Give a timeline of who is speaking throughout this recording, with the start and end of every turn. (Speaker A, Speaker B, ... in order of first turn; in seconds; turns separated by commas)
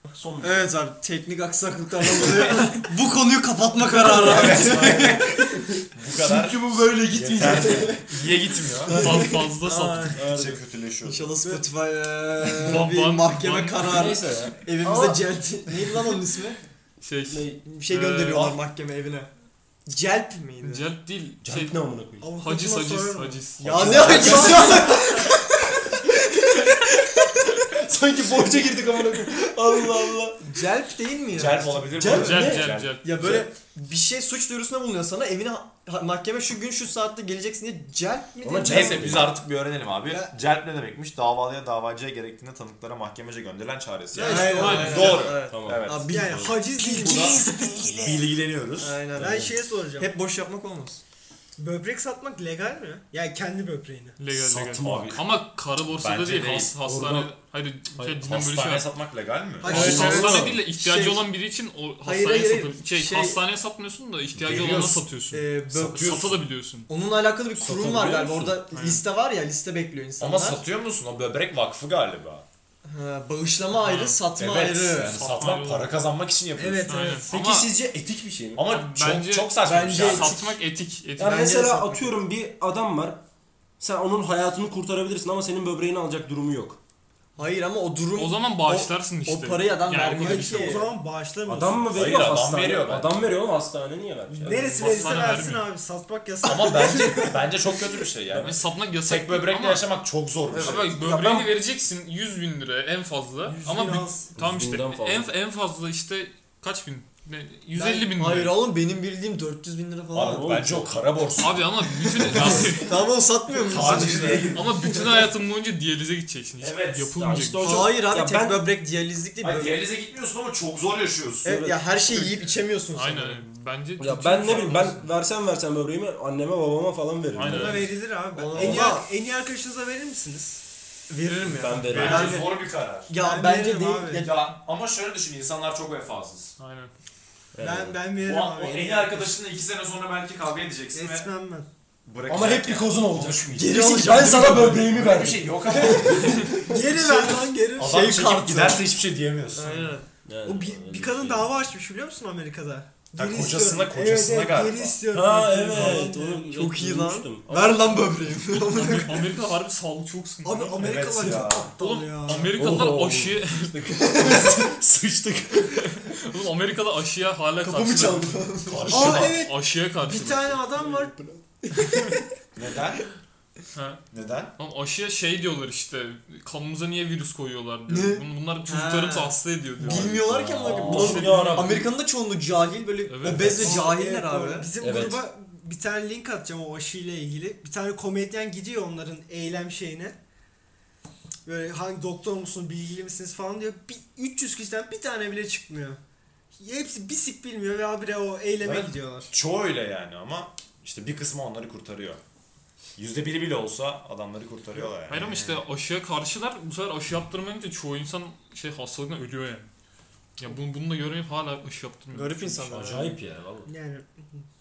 Speaker A: 0.1-0.7, Speaker B: 0.4-5.3, Speaker A: 3.9-8.0, Speaker C: 4.2-5.4, Speaker C: 5.9-9.2, Speaker B: 7.6-7.9, Speaker A: 8.8-9.4, Speaker D: 8.9-10.2, Speaker B: 9.1-9.8, Speaker C: 10.0-11.3, Speaker A: 10.1-10.6, Speaker B: 11.0-16.6, Speaker D: 12.4-14.0, Speaker A: 13.9-15.8, Speaker D: 17.0-18.5, Speaker A: 17.3-17.6, Speaker B: 17.6-19.3, Speaker C: 18.3-18.6, Speaker B: 19.9-20.9, Speaker D: 20.6-21.8, Speaker A: 21.4-22.3, Speaker E: 22.2-23.4, Speaker D: 22.4-24.7, Speaker B: 23.6-25.4, Speaker A: 23.7-25.0, Speaker E: 24.0-25.2, Speaker A: 27.7-30.4, Speaker B: 30.4-39.1, Speaker C: 31.3-33.0, Speaker A: 31.9-33.4, Speaker D: 32.1-33.4, Speaker A: 38.4-39.4, Speaker C: 38.6-47.4, Speaker E: 44.1-45.2, Speaker B: 44.2-47.9, Speaker D: 44.3-45.1, Speaker A: 45.5-45.9, Speaker E: 46.1-48.2, Speaker C: 47.9-49.0, Speaker B: 48.8-51.0, Speaker E: 49.1-50.1, Speaker A: 49.2-49.5, Speaker E: 51.6-54.1, Speaker D: 54.2-58.9, Speaker A: 54.3-55.2, Speaker C: 54.8-55.3, Speaker C: 55.9-56.7, Speaker A: 56.8-57.3, Speaker C: 58.2-59.9, Speaker E: 59.6-60.4, Speaker A: 59.6-60.6, Speaker D: 59.6-66.9, Speaker B: 59.9-61.3, Speaker B: 62.0-63.4, Speaker C: 64.3-65.1, Speaker B: 65.3-70.7, Speaker A: 65.7-66.4, Speaker A: 67.5-68.6, Speaker D: 68.7-69.0, Speaker C: 70.2-72.4, Speaker B: 72.8-75.1, Speaker D: 73.7-74.2, Speaker C: 74.2-77.0, Speaker D: 75.0-76.0, Speaker E: 76.5-77.3, Speaker D: 76.9-77.7, Speaker A: 77.3-78.6, Speaker C: 78.5-80.5, Speaker D: 78.6-81.4, Speaker B: 79.6-80.5, Speaker A: 81.2-83.2, Speaker B: 81.2-82.2, Speaker A: 83.8-86.8, Speaker B: 87.4-90.9, Speaker D: 88.1-90.8, Speaker E: 90.1-92.1, Speaker A: 91.5-95.3, Speaker C: 91.9-93.3, Speaker E: 94.3-97.5, Speaker D: 94.5-95.7, Speaker C: 96.4-101.0, Speaker D: 98.3-99.9, Speaker B: 100.5-100.8, Speaker D: 100.5-108.6, Speaker A: 100.7-101.5, Speaker E: 103.4-104.3, Speaker A: 104.3-105.3, Speaker E: 107.7-108.1, Speaker B: 108.2-110.6, Speaker C: 110.1-113.0, Speaker A: 110.2-111.0, Speaker D: 111.3-112.9, Speaker B: 112.7-115.3, Speaker C: 113.6-114.8, Speaker D: 113.8-117.9, Speaker C: 116.6-117.2, Speaker A: 117.2-118.6, Speaker B: 117.6-119.8, Speaker C: 119.4-121.5, Speaker B: 121.4-123.4, Speaker A: 121.4-121.8, Speaker D: 122.9-125.1, Speaker A: 124.0-127.9, Speaker D: 127.3-128.0, Speaker E: 127.4-130.6, Speaker B: 128.3-129.1, Speaker A: 128.6-128.9, Speaker B: 131.1-134.3, Speaker D: 131.2-132.4, Speaker A: 131.5-132.4, Speaker C: 131.9-133.1, Speaker E: 133.1-134.3, Speaker C: 134.1-136.6, Speaker D: 136.6-136.9, Speaker A: 137.5-138.0, Speaker E: 137.6-139.3, Speaker C: 138.2-141.3, Speaker A: 138.6-139.1, Speaker E: 140.9-141.7, Speaker C: 142.0-146.3, Speaker A: 142.3-146.8, Speaker B: 143.5-144.9, Speaker B: 145.7-148.9, Speaker E: 146.6-148.0, Speaker C: 147.7-149.9, Speaker B: 149.5-150.1, Speaker A: 150.2-151.5, Speaker E: 150.4-156.5, Speaker C: 153.2-155.0, Speaker A: 155.1-157.8, Speaker B: 155.7-159.3, Speaker D: 158.6-160.8, Speaker E: 160.4-162.5, Speaker C: 160.8-161.8, Speaker D: 161.7-163.7, Speaker A: 162.5-166.1, Speaker B: 164.0-164.5, Speaker D: 166.0-170.6, Speaker A: 167.6-169.0, Speaker B: 168.4-169.2, Speaker C: 168.6-169.4, Speaker E: 168.9-171.1, Speaker A: 170.7-172.0, Speaker C: 172.6-173.0, Speaker D: 173.7-174.0, Speaker C: 174.1-174.5, Speaker D: 174.6-181.7, Speaker B: 177.9-184.7, Speaker A: 179.8-181.8, Speaker D: 183.0-183.8, Speaker E: 183.4-190.2, Speaker A: 184.8-185.2, Speaker E: 191.4-196.0, Speaker E: 196.6-199.3, Speaker C: 198.6-202.2, Speaker C: 203.0-205.5, Speaker D: 205.1-209.7, Speaker D: 210.4-213.1, Speaker B: 212.1-213.2, Speaker A: 212.7-213.7, Speaker E: 213.6-214.4